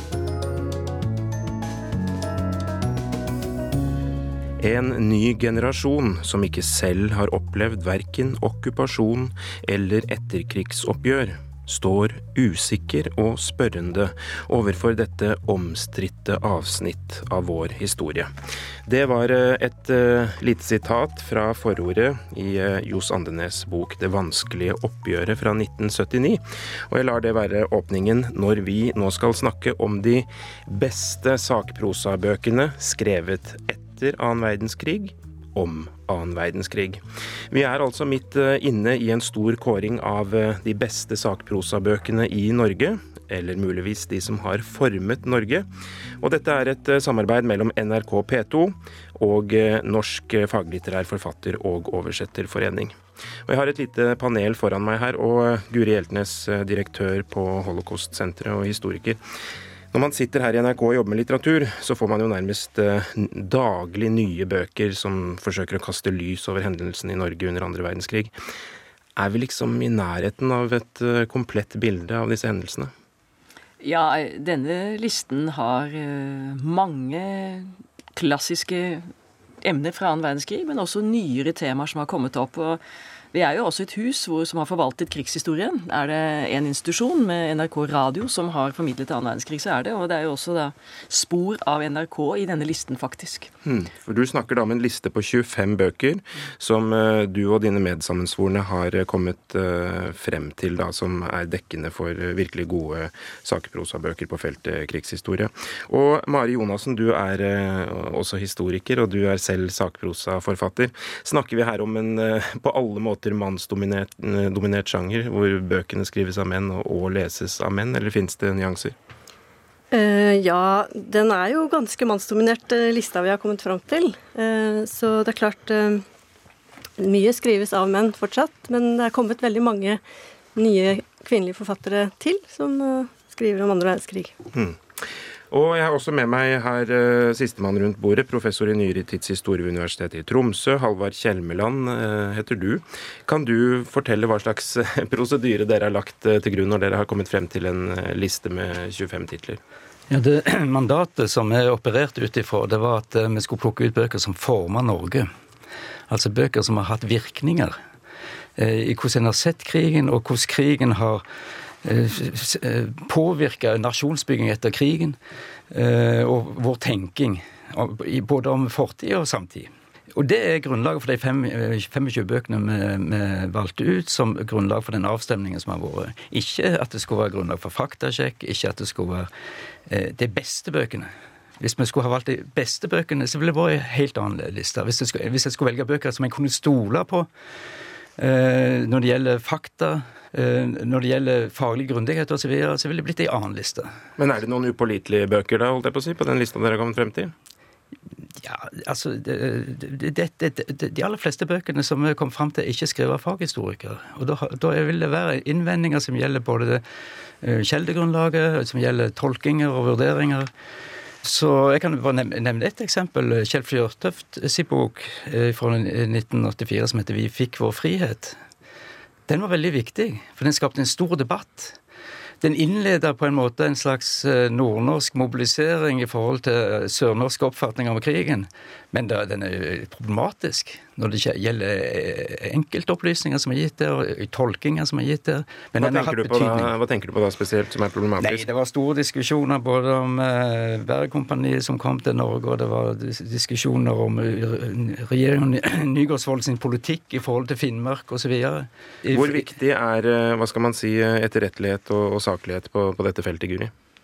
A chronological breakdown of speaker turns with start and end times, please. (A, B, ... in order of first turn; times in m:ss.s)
0:04.6-0:18.3 A
0:18.9-0:45.7 A
0:46.2-0:52.9 A
0:53.5-0:59.2 A
0:59.9-1:08.3 A
1:09.2-1:12.9 A
1:13.8-1:19.1 B
1:19.6-1:22.8 B
1:23.3-1:33.5 B
1:33.6-1:58.9 A
1:59.9-2:06.0 C
2:07.0-2:10.0 C
2:10.5-2:14.3 C
2:14.5-2:29.6 A
2:30.1-2:35.3 D
2:36.1-2:37.8 D
2:38.6-2:41.2 D
2:41.8-2:45.2 D
2:45.7-2:59.3 D
2:59.9-3:07.3 D
3:08.2-3:13.9 D
3:14.2-3:17.3 A
3:18.3-3:26.8 D
3:27.4-3:30.5 D
3:31.2-3:38.4 D
3:39.3-3:41.8 D
3:42.4-3:56.7 D
3:55.8-3:58.4 A
3:58.2-4:09.5 D
4:09.1-4:13.7 A